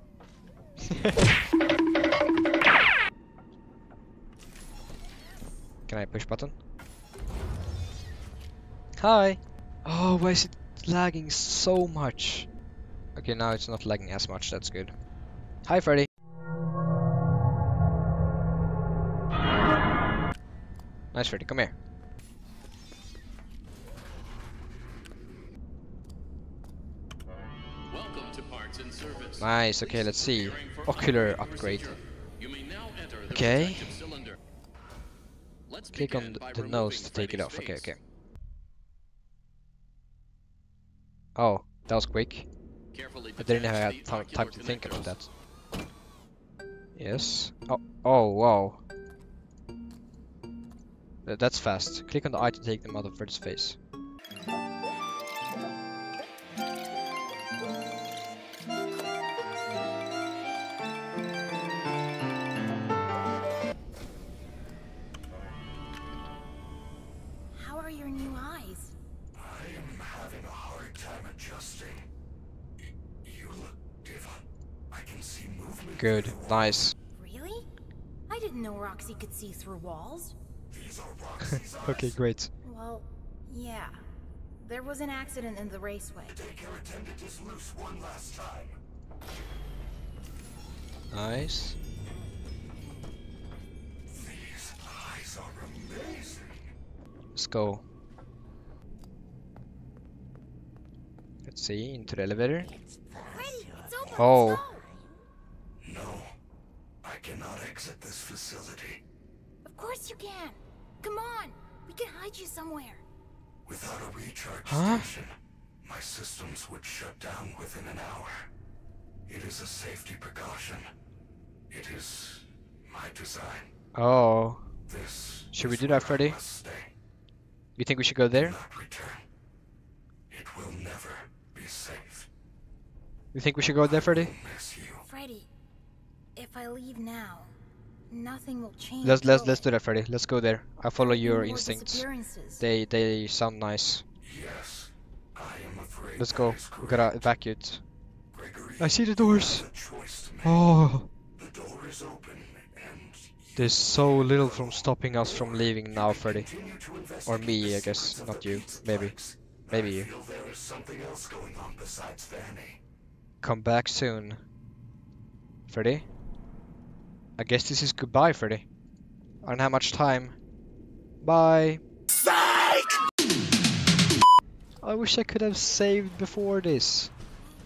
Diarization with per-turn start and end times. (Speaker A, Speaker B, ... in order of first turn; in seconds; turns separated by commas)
Speaker A: 0.8-1.2, Speaker A: 5.9-6.6, Speaker A: 9.0-12.5, Speaker A: 13.2-14.9, Speaker A: 15.7-16.1, Speaker A: 21.1-21.7, Speaker B: 27.9-34.4, Speaker A: 29.4-32.0, Speaker A: 33.3-34.0, Speaker B: 35.7-37.9, Speaker A: 35.9-38.0, Speaker A: 41.4-42.5, Speaker B: 42.9-45.2, Speaker A: 43.4-45.3, Speaker A: 47.0-48.8, Speaker A: 51.2-53.8, Speaker C: 67.5-68.9, Speaker D: 69.3-72.0, Speaker D: 73.2-76.6, Speaker A: 76.0-76.9, Speaker C: 77.1-77.7, Speaker C: 78.3-80.3, Speaker D: 80.7-82.1, Speaker A: 81.4-82.5, Speaker C: 82.6-84.0, Speaker C: 84.6-86.4, Speaker D: 86.3-88.7, Speaker A: 91.1-91.8, Speaker D: 94.1-96.6, Speaker A: 97.3-97.8, Speaker A: 101.4-102.7, Speaker D: 103.1-104.2, Speaker C: 103.3-104.9, Speaker A: 104.1-104.6, Speaker D: 105.8-106.3, Speaker D: 107.0-109.0, Speaker C: 109.6-113.0, Speaker D: 113.7-115.3, Speaker A: 114.7-115.1, Speaker D: 115.8-118.5, Speaker D: 119.3-120.8, Speaker D: 121.7-123.7, Speaker A: 123.9-124.7, Speaker D: 124.9-126.9, Speaker A: 125.5-126.4, Speaker A: 127.8-128.6, Speaker D: 128.4-129.2, Speaker D: 130.3-132.3, Speaker A: 133.3-134.3, Speaker D: 133.9-135.0, Speaker C: 135.0-135.5, Speaker C: 136.3-137.5, Speaker C: 138.1-139.7, Speaker A: 139.0-142.1, Speaker C: 141.0-142.7, Speaker A: 142.6-144.0, Speaker D: 144.2-147.2, Speaker A: 146.2-147.8, Speaker D: 148.3-150.6, Speaker A: 148.8-149.7, Speaker A: 150.4-151.1, Speaker D: 151.4-162.8, Speaker A: 153.6-156.5, Speaker A: 157.2-159.2, Speaker A: 159.7-160.1, Speaker A: 163.4-164.4, Speaker A: 165.7-166.1, Speaker A: 167.4-168.7, Speaker A: 169.4-170.3, Speaker A: 171.2-171.8, Speaker A: 174.8-177.1